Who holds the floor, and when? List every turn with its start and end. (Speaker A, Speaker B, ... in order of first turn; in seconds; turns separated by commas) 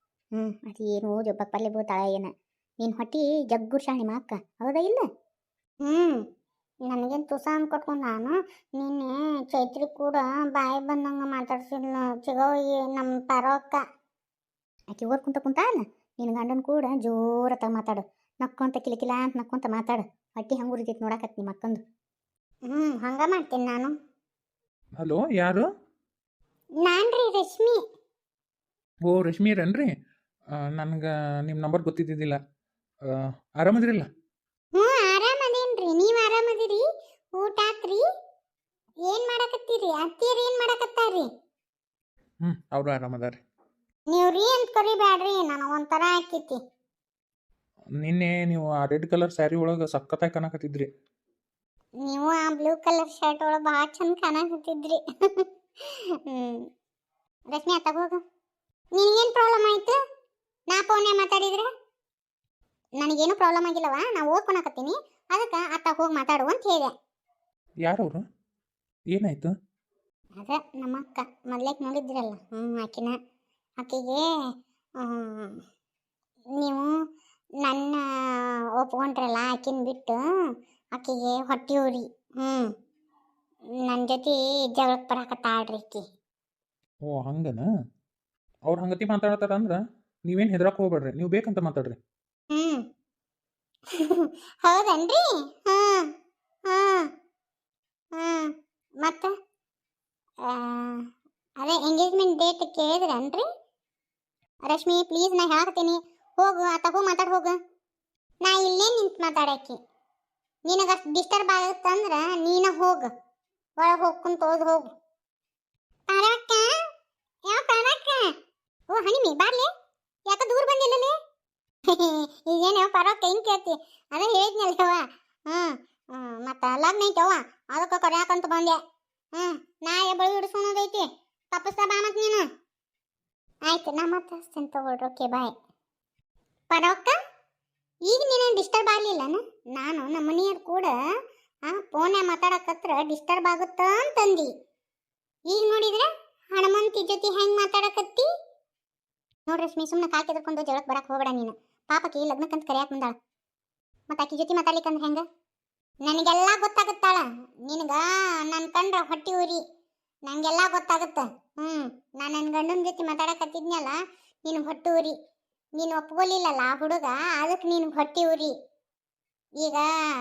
Speaker A: 0.4-1.8, Speaker B: 1.6-2.3, Speaker A: 2.9-5.0, Speaker B: 5.8-6.2, Speaker B: 6.9-13.8, Speaker A: 14.9-21.8, Speaker B: 16.3-16.9, Speaker B: 22.7-23.9, Speaker C: 25.0-25.7, Speaker B: 26.8-27.8, Speaker C: 29.1-29.9, Speaker C: 30.6-32.4, Speaker C: 33.0-34.1, Speaker B: 34.7-36.8, Speaker B: 37.4-38.0, Speaker B: 39.1-41.3, Speaker C: 42.4-43.4, Speaker B: 44.1-46.6, Speaker C: 48.0-50.9, Speaker B: 52.0-55.5, Speaker B: 56.3-56.6, Speaker B: 57.5-58.2, Speaker B: 59.0-60.0, Speaker B: 60.7-61.7, Speaker B: 63.0-66.9, Speaker C: 67.8-68.2, Speaker C: 69.1-69.5, Speaker B: 70.4-73.2, Speaker B: 73.8-74.3, Speaker B: 75.0-75.6, Speaker B: 76.6-76.9, Speaker B: 77.6-80.2, Speaker B: 81.0-82.7, Speaker B: 83.8-86.0, Speaker C: 87.0-87.7, Speaker C: 88.7-92.0, Speaker B: 92.5-92.8, Speaker B: 94.0-96.1, Speaker B: 96.7-97.1, Speaker B: 98.2-99.3, Speaker B: 100.4-101.0, Speaker B: 101.6-103.5, Speaker B: 104.7-107.6, Speaker B: 108.4-109.8, Speaker B: 110.7-113.1, Speaker B: 113.8-114.9, Speaker B: 116.1-116.7, Speaker B: 117.5-118.3, Speaker B: 118.9-119.7, Speaker B: 120.3-121.1, Speaker B: 121.9-128.8, Speaker B: 129.3-132.4, Speaker B: 133.7-135.5, Speaker B: 136.7-137.2, Speaker B: 138.1-140.9, Speaker B: 141.7-144.5, Speaker B: 145.5-148.3, Speaker B: 149.5-153.1, Speaker B: 154.1-155.2, Speaker B: 156.1-159.6, Speaker B: 160.3-165.2, Speaker B: 165.8-168.5, Speaker B: 169.6-169.9